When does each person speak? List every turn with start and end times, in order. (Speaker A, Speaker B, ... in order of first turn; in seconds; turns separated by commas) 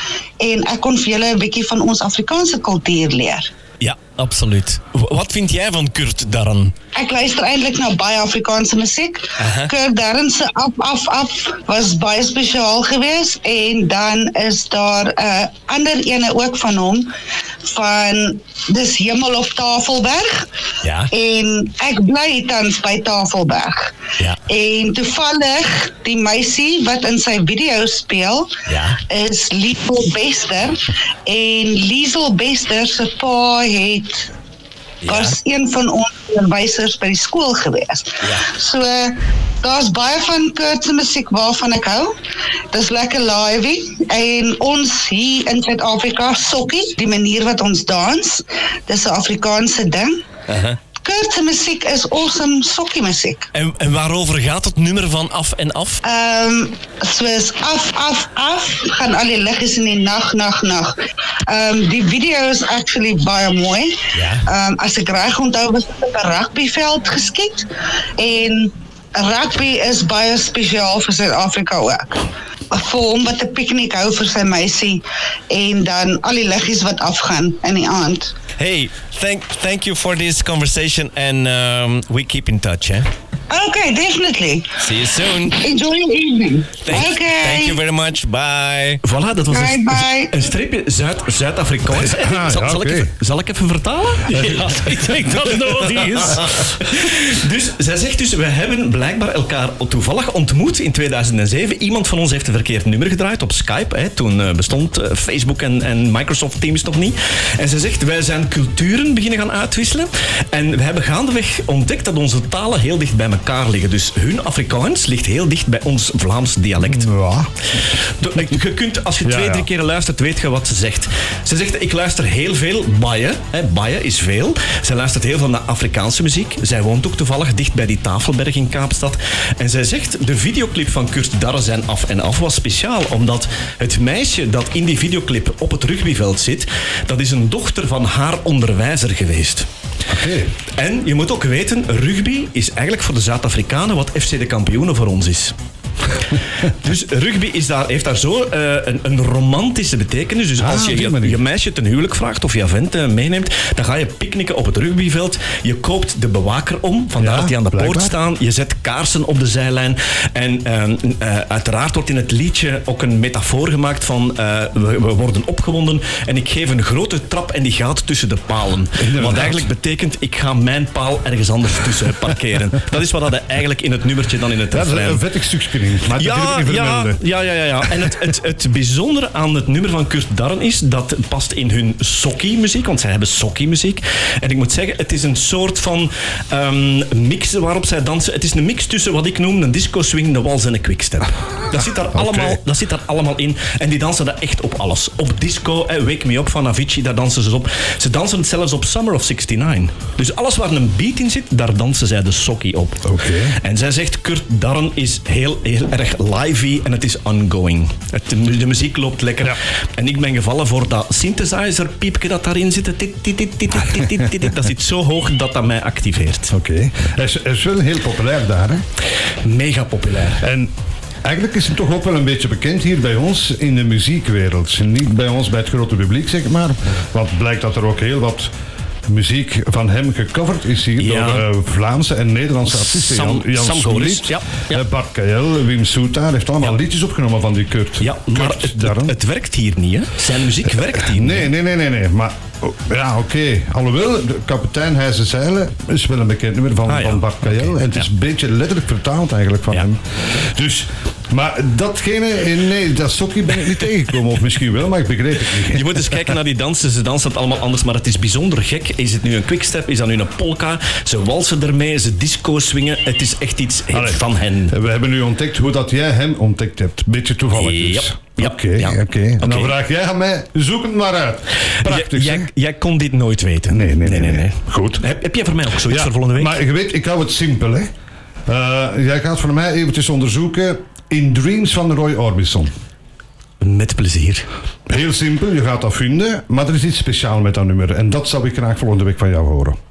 Speaker A: 0.4-3.5, Speaker B: 3.8-6.7, Speaker A: 6.9-17.1, Speaker B: 9.4-9.7, Speaker A: 17.6-20.4, Speaker B: 20.8-21.1, Speaker A: 21.1-23.9, Speaker A: 24.5-28.5, Speaker B: 28.7-29.0, Speaker A: 29.1-34.3, Speaker B: 35.0-35.4, Speaker A: 35.0-42.1, Speaker A: 42.7-50.2, Speaker B: 50.5-50.8, Speaker A: 51.0-53.5, Speaker B: 53.5-56.0, Speaker A: 56.0-63.9, Speaker B: 64.1-64.4, Speaker A: 64.5-78.3, Speaker C: 78.6-83.0, Speaker A: 83.5-84.7, Speaker C: 84.8-85.6, Speaker A: 85.4-87.8, Speaker C: 86.8-89.0, Speaker B: 89.0-117.1, Speaker A: 89.5-90.5, Speaker D: 91.9-93.1, Speaker D: 94.3-96.6, Speaker C: 94.5-94.8, Speaker D: 116.8-117.5, Speaker B: 118.2-139.7, Speaker D: 119.2-119.7, Speaker D: 140.1-140.5, Speaker B: 140.8-145.5, Speaker B: 146.6-175.2, Speaker D: 150.6-151.4, Speaker D: 157.2-158.1, Speaker D: 169.0-169.7, Speaker D: 174.7-177.2, Speaker B: 176.2-216.5, Speaker D: 192.2-192.6, Speaker D: 203.0-203.6, Speaker D: 216.5-218.8, Speaker B: 219.4-220.4, Speaker D: 220.4-220.7, Speaker D: 221.2-228.5, Speaker D: 229.1-239.2, Speaker B: 231.0-231.4, Speaker B: 232.7-234.8, Speaker B: 238.0-241.5, Speaker D: 241.0-256.2, Speaker B: 246.9-248.1, Speaker B: 255.6-264.7, Speaker D: 263.9-272.5, Speaker B: 267.5-269.7, Speaker B: 271.8-276.6, Speaker D: 273.7-275.0, Speaker D: 275.9-277.9, Speaker D: 278.5-282.7, Speaker B: 283.6-284.4, Speaker D: 284.9-289.8